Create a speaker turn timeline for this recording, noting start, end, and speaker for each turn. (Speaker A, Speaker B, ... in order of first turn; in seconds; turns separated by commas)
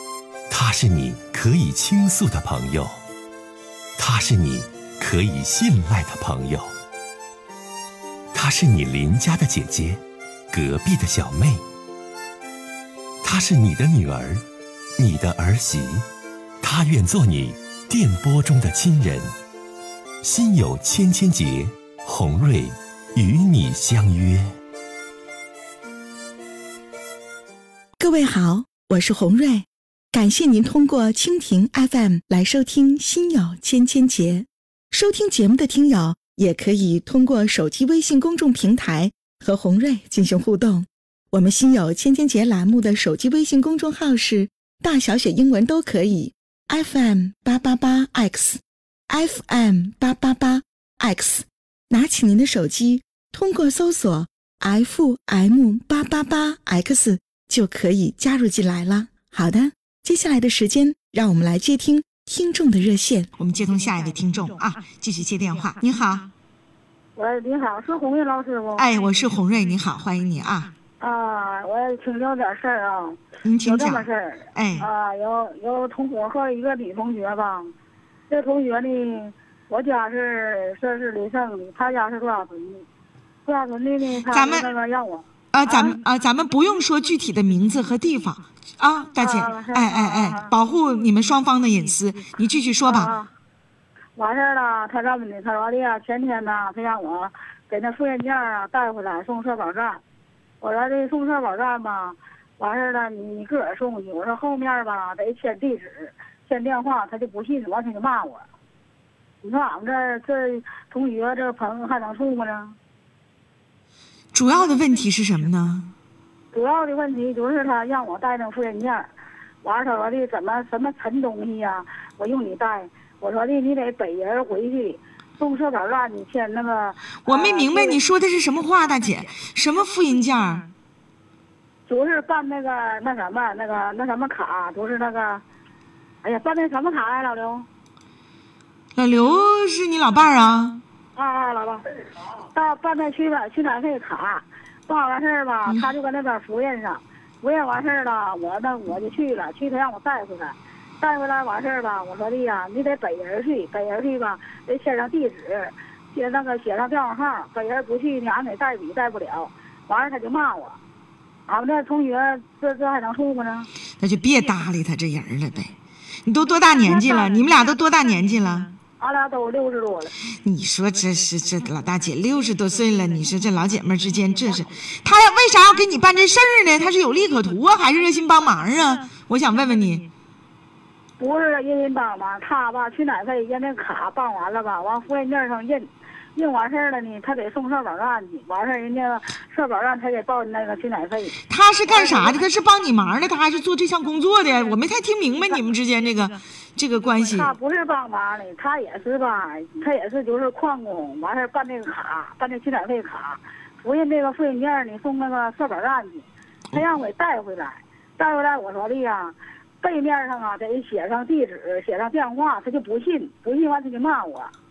Speaker A: 0.5-2.9, Speaker A: 4.0-6.7, Speaker A: 8.3-10.0, Speaker A: 10.5-11.6, Speaker A: 13.2-14.4, Speaker A: 15.0-16.0, Speaker A: 16.6-19.2, Speaker A: 20.2-24.4, Speaker B: 28.0-66.3, Speaker C: 67.2-68.9, Speaker B: 68.8-70.7, Speaker C: 71.0-77.7, Speaker B: 73.4-74.9, Speaker C: 78.3-82.8, Speaker C: 83.4-86.0, Speaker B: 84.3-84.7, Speaker B: 85.5-93.1, Speaker C: 89.2-90.5, Speaker C: 92.8-93.3, Speaker C: 94.1-100.0, Speaker C: 100.6-108.4, Speaker C: 109.4-112.8, Speaker B: 114.3-115.9, Speaker C: 116.5-119.1, Speaker C: 119.6-128.0, Speaker B: 127.2-130.7, Speaker C: 131.9-135.4, Speaker C: 136.2-137.7, Speaker B: 138.9-140.8, Speaker C: 141.2-141.8, Speaker C: 142.5-160.8, Speaker C: 161.5-163.7, Speaker B: 164.0-165.7, Speaker B: 166.2-168.7, Speaker C: 166.8-167.4, Speaker C: 169.0-170.1, Speaker B: 170.4-180.1, Speaker C: 181.2-191.4, Speaker B: 191.5-197.5, Speaker C: 191.9-192.4, Speaker C: 197.3-214.5